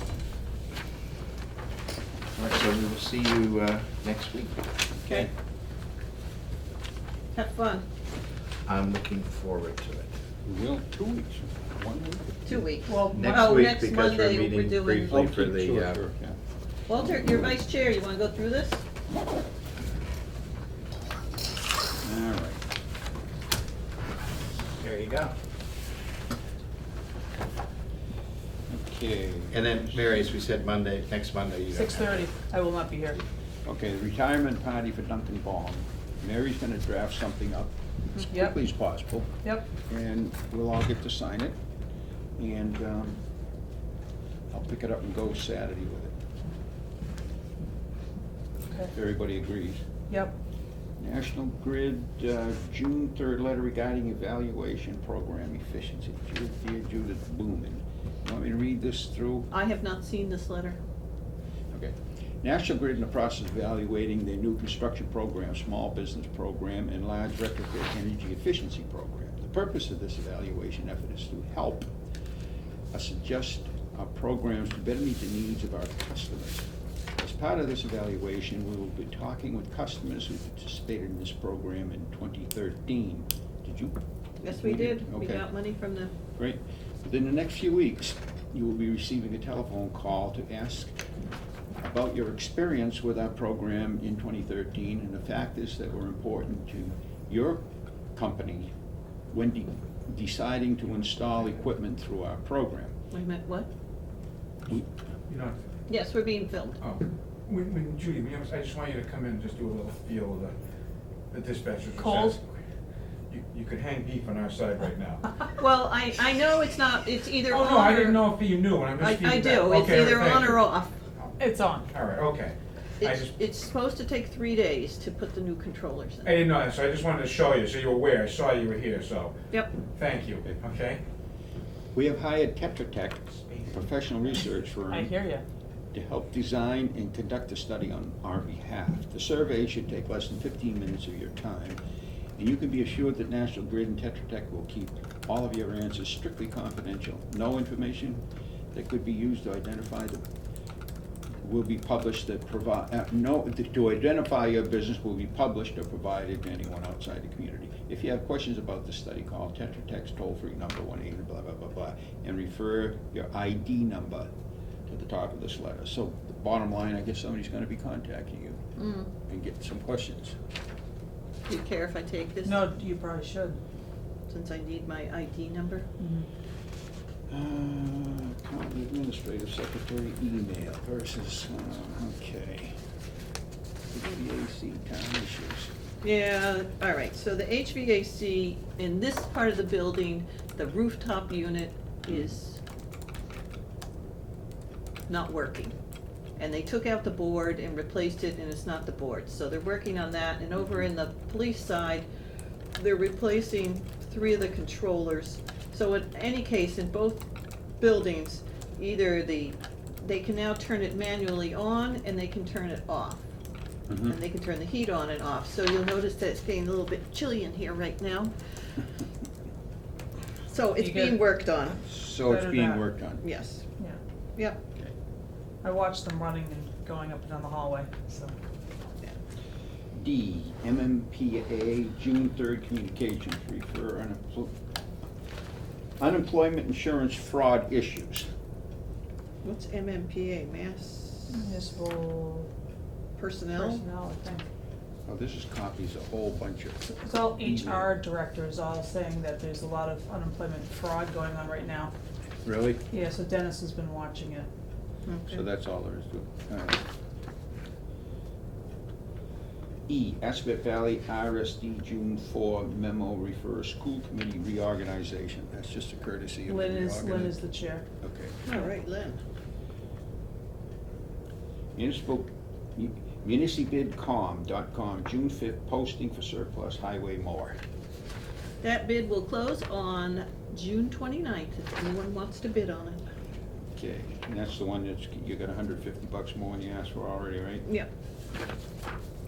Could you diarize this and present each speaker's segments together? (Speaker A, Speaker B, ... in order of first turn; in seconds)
Speaker A: 2.4-4.6, 8.7-10.1, 13.1-16.0, 24.8-25.3, 29.5-32.3
Speaker B: 5.0-5.3, 10.4-12.5, 15.1-16.4, 22.0-22.6, 28.7-30.1, 33.7-39.3, 39.9-41.6, 42.4-43.2, 44.5-46.1, 48.9-49.8, 51.0-59.5, 61.7-71.9, 72.9-76.7, 77.2-85.5, 86.3-90.9, 91.8-98.7, 99.3-103.0, 131.9-135.2, 135.9-141.8, 142.4-150.2, 151.4-164.3, 164.9-168.6, 169.3-170.4, 177.3-182.8, 183.9-185.7, 213.9-214.2, 221.8-223.2, 230.0-234.6, 236.0-238.3, 245.1-247.9, 252.4-252.8, 255.3-256.8, 259.9-267.4, 268.0-268.4, 271.8-277.6, 283.8-287.7
Speaker C: 7.3-7.9, 12.4-15.2, 16.9-18.8, 59.5-60.8, 84.4-86.1, 103.1-103.7, 105.9-106.8, 115.6-118.4, 119.0-121.0, 123.0-126.4, 168.8-169.1, 171.5-172.7, 174.3-175.9, 186.0-192.6, 195.1-195.8, 196.4-202.1, 202.8-207.2, 207.8-213.3, 214.1-218.3, 220.5-221.8, 223.2-223.7, 239.4-241.4, 243.2-243.8, 255.1-255.4, 268.5-269.2, 278.6-283.0
Speaker D: 12.9-13.7, 31.7-33.2, 38.3-38.6, 39.4-39.7, 50.1-50.4, 112.0-112.4, 121.4-121.9, 134.9-135.4, 172.4-173.6, 176.0-176.3, 220.8-221.2, 222.2-222.8, 225.6-228.3, 241.3-242.5, 243.6-244.5, 246.8-251.9, 252.9-254.5, 266.5-267.9
Speaker E: 104.7-105.6, 106.8-110.5, 111.3-112.4, 113.3-115.2, 117.5-120.7, 121.9-123.3, 126.2-129.3, 129.9-131.0, 133.5-133.8